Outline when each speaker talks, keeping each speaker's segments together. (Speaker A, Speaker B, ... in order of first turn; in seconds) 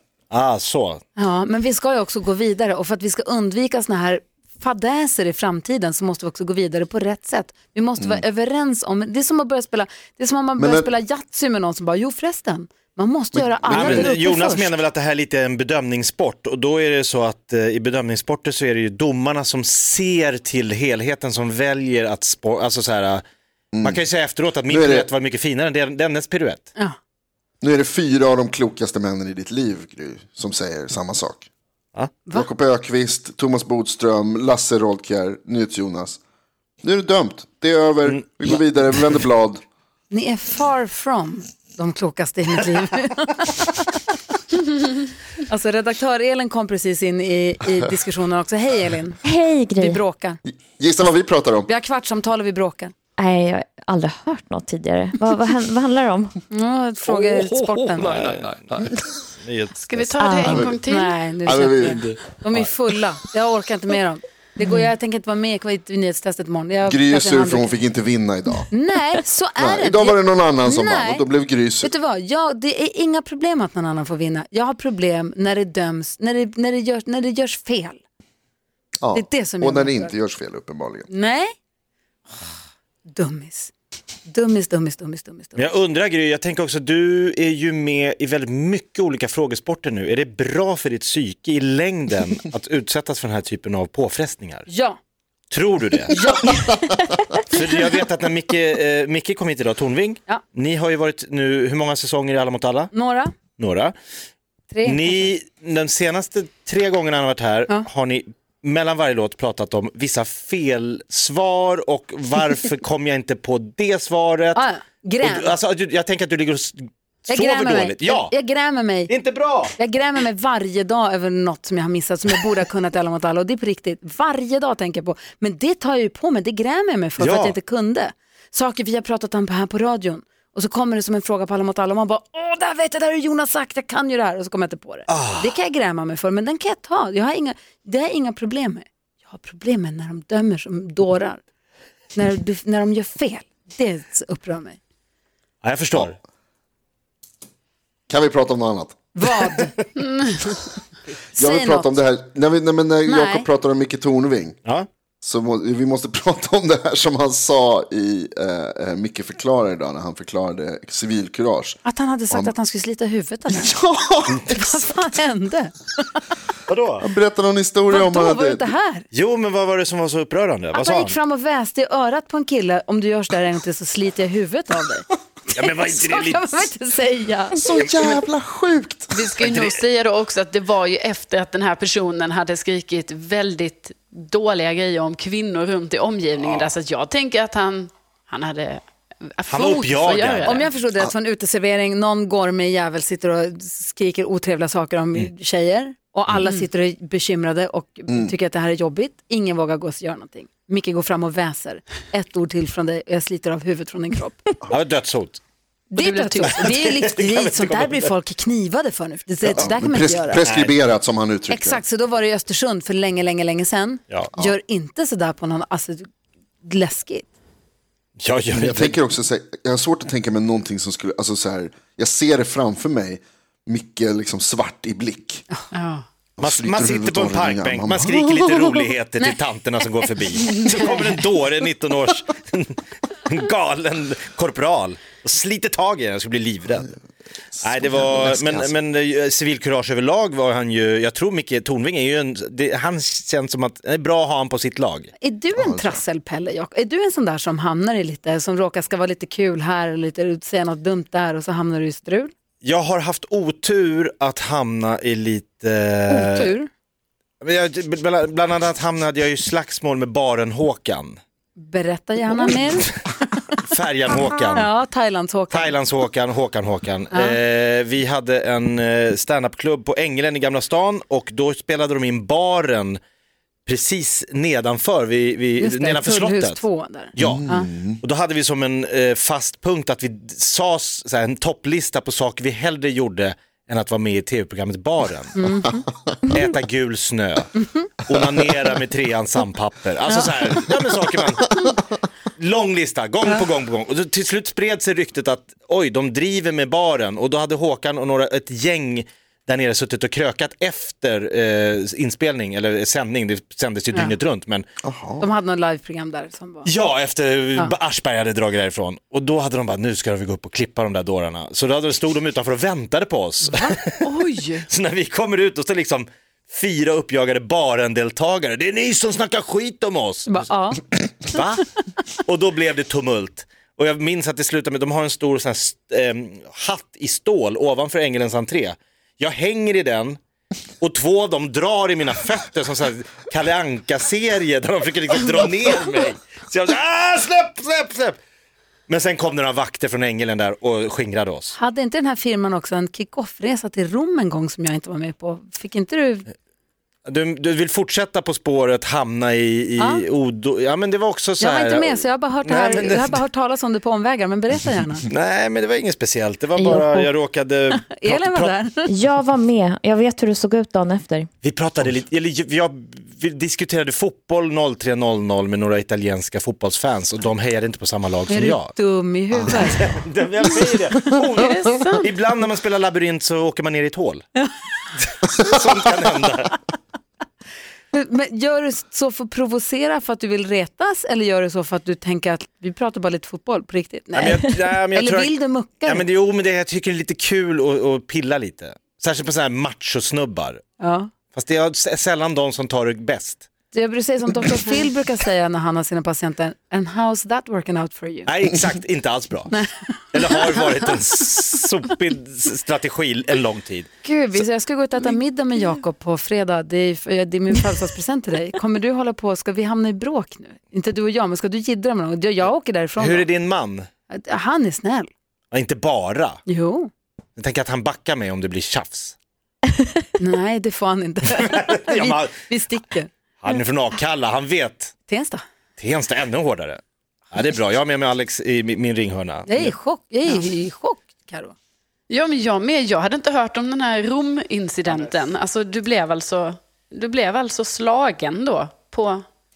Speaker A: 0.3-1.0, 13.7-23.2, 23.8-26.7, 38.1-38.6, 58.1-58.5, 59.4-60.1, 85.6-94.7, 95.5-96.2, 97.5-102.9, 103.6-103.9, 104.8-114.6, 115.2-118.3, 119.1-119.7, 127.2-127.5, 135.1-135.5, 145.6-146.2, 166.7-167.1, 169.1-171.2, 175.5-176.7, 177.8-178.2, 179.4-179.8, 186.4-186.7, 189.5-190.7, 204.7-205.4, 206.4-208.1, 210.5-210.8, 214.1-214.3, 218.2-219.0, 226.4-236.9, 237.6-245.1, 252.6-256.5, 257.4-261.2, 263.6-264.7, 265.5-273.0, 273.7-276.6, 277.1-285.4, 286.3-291.8, 292.4-304.7, 306.6-314.0, 314.7-320.4, 321.3-321.7, 322.2-330.2, 330.8-338.2, 338.9-341.6, 347.1-353.2, 355.1-358.6, 361.4-368.7, 369.4-374.2, 375.0-376.6, 384.1-385.3, 385.9-390.6, 391.3-393.5, 398.3-399.5, 400.1-403.9, 413.0-413.9, 415.5-416.4, 417.4-419.2, 421.4-422.4, 423.4-424.9, 425.8-426.8, 427.3-429.7, 435.0-435.2
Speaker B: 1.2-14.8, 40.1-44.1, 45.5-49.2, 49.8-50.4, 51.7-52.9, 56.5-58.1, 60.6-67.7, 68.7-71.2, 71.8-78.0, 79.1-80.1, 81.1-81.5, 83.1-83.7, 84.3-85.7, 94.7-95.0, 96.1-97.0, 102.9-103.3, 104.7-105.3, 114.5-115.5, 117.3-119.1, 119.8-141.4, 142.1-144.8, 149.2-149.7, 151.4-152.0, 153.1-153.5, 161.8-163.8, 164.4-165.8, 167.9-169.1, 170.7-177.6, 190.4-204.6, 205.9-210.4, 211.5-216.1, 216.6-217.3, 245.2-252.3, 256.1-256.7, 261.6-263.4, 264.5-265.7, 267.1-267.4, 275.6-277.7, 285.4-285.9, 305.2-306.7, 320.3-320.8, 341.6-346.3, 349.8-350.0, 351.4-355.0, 357.8-358.9, 368.3-369.9, 377.9-386.1, 390.8-391.1, 393.7-398.3, 400.3-400.6, 404.0-413.3, 414.1-415.1, 416.5-416.9, 420.2-423.1, 425.1-425.4, 429.5-431.6
Speaker C: 10.6-10.9, 13.3-14.1, 23.7-24.1, 24.7-25.1, 27.6-31.5, 32.3-36.2, 36.8-39.6, 50.5-51.7, 60.5-60.8, 61.5-62.0, 66.8-68.7, 69.6-71.9, 79.0-81.1, 148.1-149.0, 151.4-154.6, 155.2-161.8, 163.5-164.8, 167.0-168.7, 177.6-179.2, 209.4-211.8, 218.5-225.4, 226.4-228.8, 237.6-238.7, 245.6-246.0, 277.2-278.0, 304.8-305.3
Speaker D: 49.2-50.0, 53.2-56.4, 60.2-60.7, 356.6-357.1, 358.9-361.3
Speaker E: 57.0-59.1, 61.8-62.6
Speaker F: 59.9-61.2, 150.0-150.6, 179.2-190.7, 196.4-196.7, 205.9-206.7, 225.7-226.1, 314.0-314.7, 371.3-372.1, 432.1-439.3